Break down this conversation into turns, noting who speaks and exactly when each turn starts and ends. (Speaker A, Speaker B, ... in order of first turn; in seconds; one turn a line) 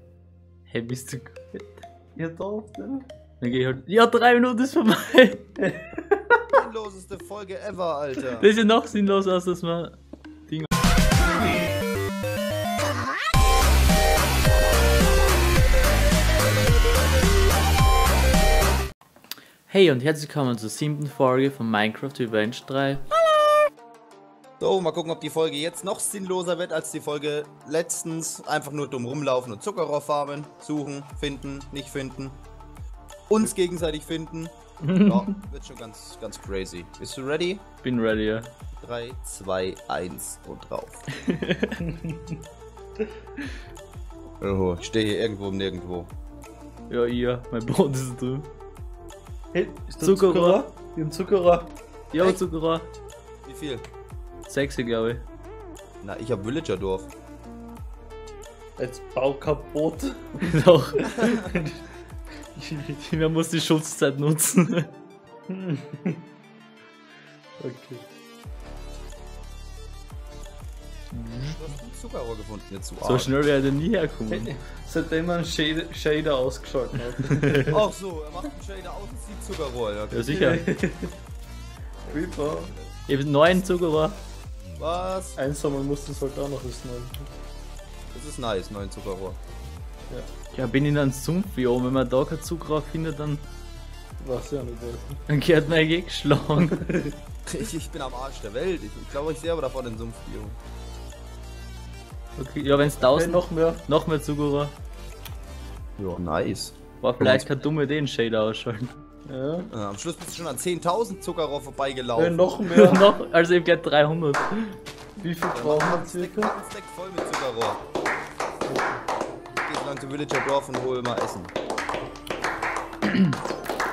Speaker A: 0.7-1.8
Speaker B: 2.2-3.0
Speaker A: 3.4-5.5
Speaker B: 5.7-6.0
Speaker C: 6.5-8.5
Speaker A: 8.1-10.7
Speaker A: 19.7-23.1
Speaker C: 24.6-32.4
Speaker C: 33.3-37.6
Speaker A: 34.8-35.5
Speaker A: 37.8-38.5
Speaker C: 38.8-41.0
Speaker A: 41.1-41.8
Speaker B: 42.0-42.4
Speaker C: 44.4-46.1
Speaker A: 46.9-48.5
Speaker B: 49.5-51.7
Speaker A: 50.0-50.6
Speaker A: 52.1-52.9
Speaker C: 53.5-53.9
Speaker A: 54.5-55.3
Speaker C: 56.0-57.1
Speaker B: 58.8-61.8
Speaker A: 60.4-61.5
Speaker B: 62.5-63.0
Speaker A: 63.0-64.9
Speaker B: 65.5-66.2
Speaker B: 67.6-68.0
Speaker A: 71.1-71.6
Speaker C: 71.4-73.3
Speaker A: 73.0-74.5
Speaker B: 74.3-77.8
Speaker A: 77.2-77.7
Speaker C: 77.7-80.3
Speaker A: 80.1-80.7
Speaker B: 80.3-81.1
Speaker C: 82.0-83.0
Speaker B: 82.1-82.7
Speaker A: 83.1-84.2
Speaker C: 84.8-85.4
Speaker B: 85.4-87.3
Speaker C: 88.1-89.4
Speaker A: 90.5-93.5
Speaker B: 94.2-95.2
Speaker A: 95.3-96.9
Speaker B: 96.7-97.1
Speaker C: 97.5-100.6
Speaker A: 102.4-104.7
Speaker B: 102.9-103.8
Speaker C: 106.0-107.5
Speaker A: 107.0-109.0
Speaker B: 109.2-109.7
Speaker C: 109.7-112.4
Speaker B: 112.1-113.1
Speaker A: 112.6-114.8
Speaker B: 115.2-116.5
Speaker C: 115.5-117.8
Speaker B: 118.6-119.0
Speaker C: 119.6-121.5
Speaker A: 123.0-123.4